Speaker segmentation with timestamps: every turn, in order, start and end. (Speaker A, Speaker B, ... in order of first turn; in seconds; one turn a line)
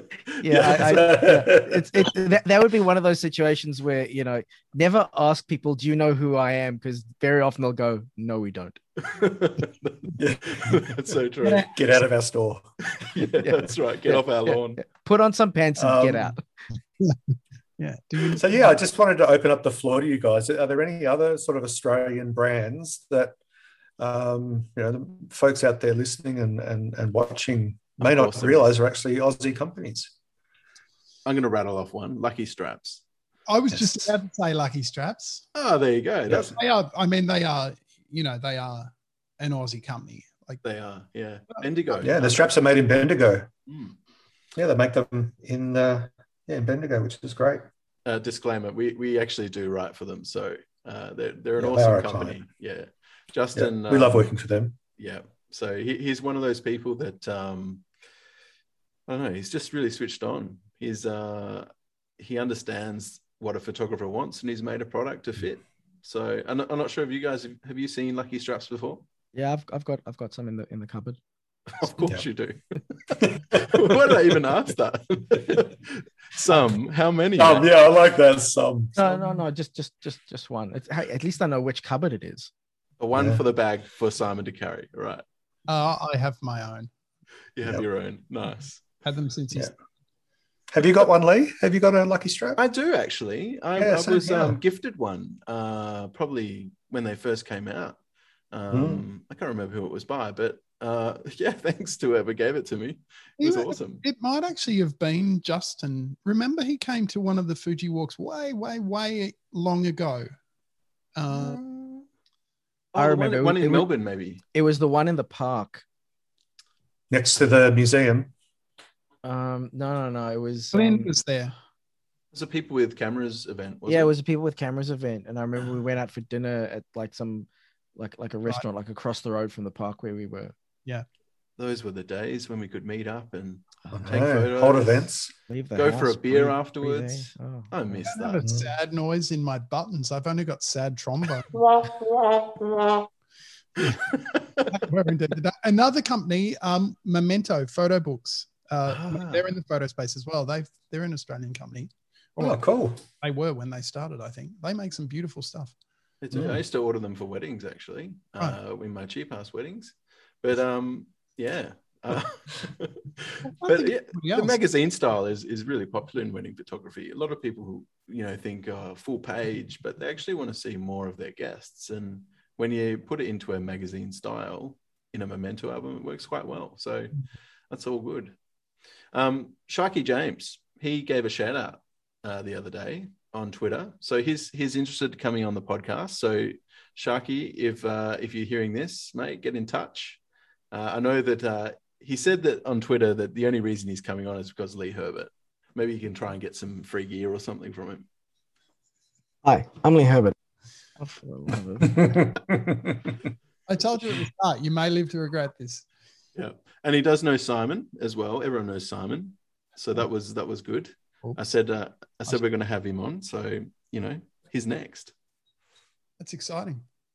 Speaker A: 0.3-8.8
Speaker B: 0.5-2.0
Speaker C: 0.6-0.9
Speaker C: 9.0-11.7
Speaker B: 10.2-10.8
Speaker D: 11.4-11.7
Speaker B: 11.7-12.8
Speaker C: 12.9-14.8
Speaker A: 13.2-16.4
Speaker B: 15.8-16.3
Speaker D: 17.8-18.8
Speaker B: 18.3-23.4
Speaker B: 24.0-30.1
Speaker C: 28.0-28.7
Speaker C: 31.2-33.0
Speaker D: 33.5-35.5
Speaker B: 33.7-34.1
Speaker C: 35.5-36.6
Speaker D: 36.4-40.6
Speaker C: 40.6-42.5
Speaker B: 42.0-43.5
Speaker C: 43.7-44.0
Speaker B: 44.5-47.6
Speaker C: 48.0-54.3
Speaker B: 51.6-52.4
Speaker B: 53.5-54.7
Speaker C: 55.0-57.8
Speaker C: 59.1-61.7
Speaker C: 62.2-69.0
Speaker A: 69.3-71.2
Speaker C: 71.8-72.6
Speaker C: 73.1-77.7
Speaker B: 73.2-74.0
Speaker B: 77.4-78.9
Speaker A: 79.0-82.5
Speaker D: 79.1-79.4
Speaker C: 83.0-85.2
Speaker B: 83.1-83.4
Speaker D: 85.7-86.9
Speaker C: 87.5-88.8
Speaker D: 89.0-89.7
Speaker B: 90.7-92.6
Speaker C: 92.6-98.0
Speaker B: 93.8-94.6
Speaker C: 98.5-104.0
Speaker B: 98.7-99.0
Speaker D: 103.4-110.3
Speaker D: 111.2-111.6
Speaker A: 112.9-113.9
Speaker C: 112.9-114.4
Speaker A: 114.5-115.8
Speaker B: 117.1-118.3
Speaker A: 119.2-121.1
Speaker D: 120.7-121.5
Speaker C: 122.3-124.1
Speaker A: 123.9-130.5
Speaker C: 131.6-135.0
Speaker B: 133.9-135.3
Speaker A: 135.5-138.1
Speaker C: 135.7-138.4
Speaker D: 138.1-141.5
Speaker B: 138.4-138.7
Speaker C: 143.9-144.4
Speaker D: 144.7-155.8
Speaker C: 148.9-149.4
Speaker B: 152.4-153.0
Speaker C: 156.2-178.3
Speaker B: 156.3-156.6
Speaker D: 163.4-164.5
Speaker C: 179.1-190.2
Speaker C: 190.7-198.1
Speaker A: 199.4-200.3
Speaker A: 201.0-202.2
Speaker B: 201.8-203.1
Speaker D: 203.7-205.8
Speaker C: 206.3-215.1
Speaker D: 216.2-216.8